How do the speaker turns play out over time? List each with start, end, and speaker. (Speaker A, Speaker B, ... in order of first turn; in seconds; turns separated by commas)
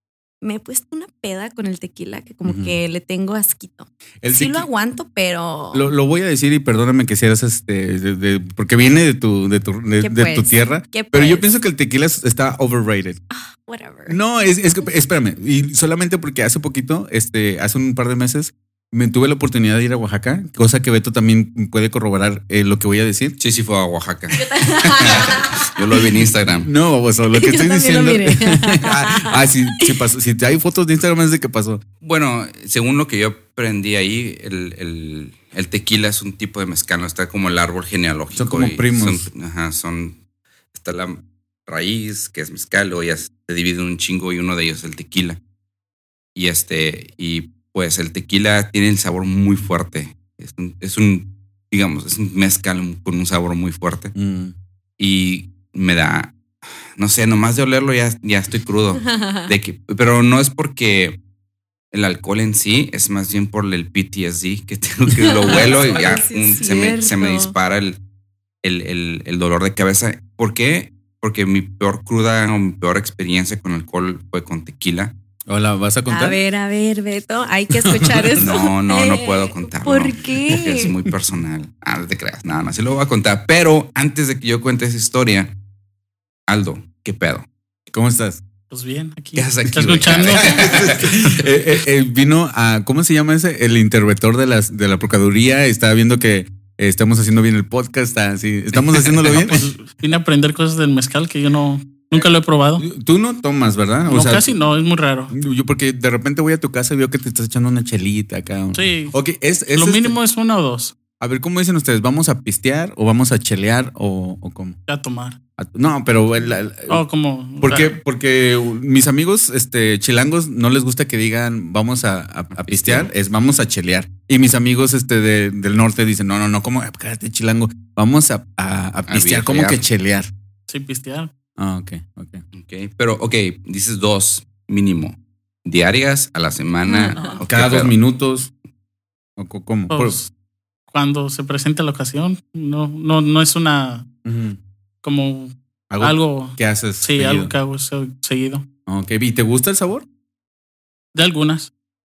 Speaker A: 0.4-5.9, Speaker B: 2.4-2.8, Speaker B: 4.2-4.7, Speaker B: 5.7-13.2, Speaker A: 10.0-11.5, Speaker A: 13.3-14.2, Speaker B: 14.1-23.4, Speaker C: 23.4-26.7, Speaker A: 24.3-25.7, Speaker B: 26.6-31.8, Speaker A: 27.4-29.8, Speaker C: 32.0-40.2, Speaker B: 38.3-39.3, Speaker C: 40.7-45.4, Speaker C: 46.3-54.1, Speaker B: 54.1-54.5, Speaker C: 55.0-56.3, Speaker C: 57.0-61.2, Speaker A: 59.0-59.5, Speaker C: 61.9-68.0, Speaker A: 65.2-67.5, Speaker B: 65.5-65.9, Speaker C: 68.6-75.1, Speaker B: 75.5-76.4, Speaker A: 76.1-80.9, Speaker B: 77.7-78.5, Speaker C: 78.4-85.5, Speaker C: 86.5-87.5, Speaker B: 87.9-88.4, Speaker D: 88.7-91.4, Speaker C: 89.3-91.1, Speaker B: 90.3-99.7, Speaker C: 98.7-99.1, Speaker D: 99.2-102.8, Speaker B: 102.8-104.5, Speaker D: 104.1-105.3, Speaker B: 105.3-110.2, Speaker D: 108.7-109.1, Speaker D: 109.7-110.9, Speaker B: 111.2-114.8, Speaker D: 114.9-115.4, Speaker B: 115.6-117.0, Speaker D: 116.9-118.0, Speaker B: 117.6-130.3, Speaker C: 122.5-123.1, Speaker C: 129.1-129.8, Speaker D: 130.7-131.3, Speaker B: 131.6-132.4, Speaker C: 132.5-137.9, Speaker A: 136.8-137.4, Speaker B: 137.5-138.5, Speaker B: 139.4-140.2, Speaker D: 139.9-140.3, Speaker D: 140.9-144.1, Speaker B: 144.2-144.6, Speaker D: 145.0-148.6, Speaker B: 145.9-147.5, Speaker B: 148.9-150.0, Speaker D: 151.1-151.7